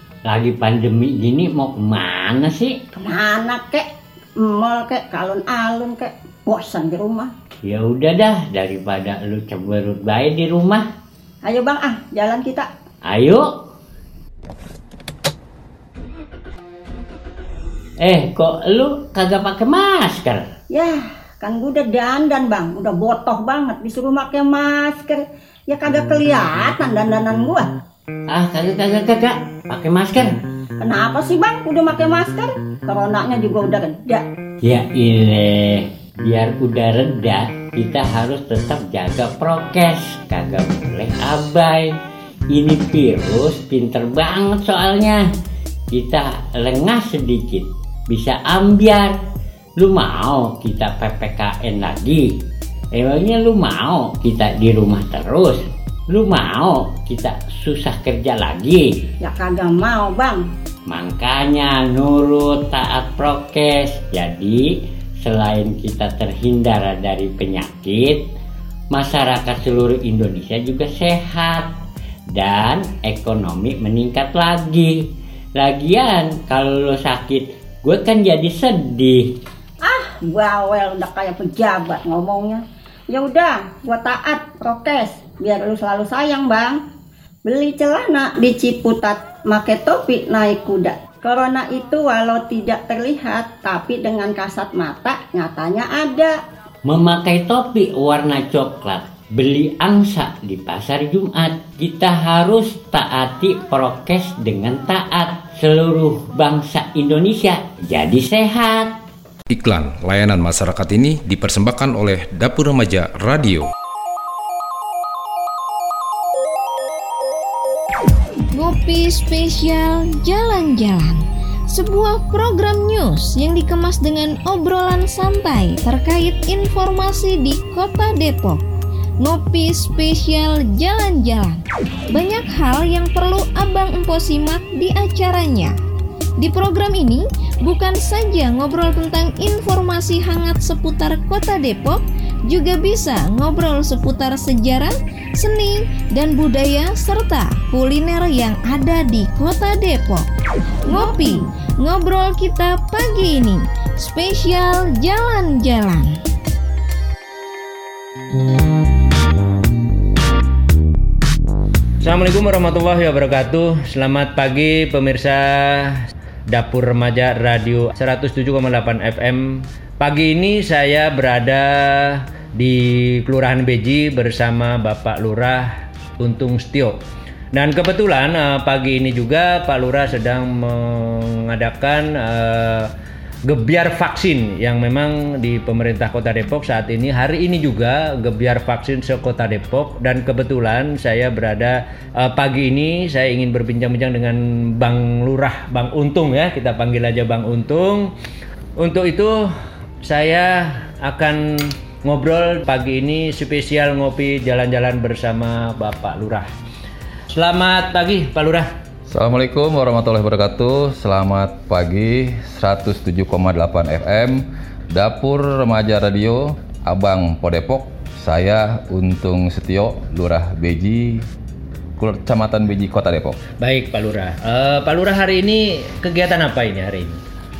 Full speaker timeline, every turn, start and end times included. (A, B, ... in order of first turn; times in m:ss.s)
0:00.2-0:02.8 A
0:03.0-0:03.9 B
0:04.4-0:07.3 B
0:07.6-0:10.8 A
0:11.4-0:12.7 B
0:13.0-0:13.5 A
0:18.0-0:20.5 A
0:20.7-0:27.7 B
0:28.3-0:30.3 A
0:30.8-0:34.2 B
0:34.6-0:41.9 A
0:42.5-0:45.2 A
0:45.9-0:49.2 A
0:49.8-0:52.3 A
0:52.9-0:58.9 A
0:59.2-1:00.4 B
1:00.9-1:08.3 A
1:08.9-1:11.7 A
1:12.3-1:15.0 A
1:15.6-1:19.2 A
1:19.8-1:26.8 B
1:27.4-1:36.4 B
1:36.8-1:48.9 A
1:49.5-1:53.7 C
1:58.5-2:08.6 D
2:09.2-2:11.6 D
2:12.1-2:15.7 D
2:16.4-2:30.2 D
2:30.8-2:36.1 D
2:42.0-2:57.0 E
2:57.5-3:02.9 E
3:03.5-3:18.1 E
3:18.8-3:19.5 E
3:20.0-3:26.5 E
3:27.3-3:28.7 E
3:29.1-3:41.2 F
3:42.0-3:43.4 F
3:43.6-3:47.2 E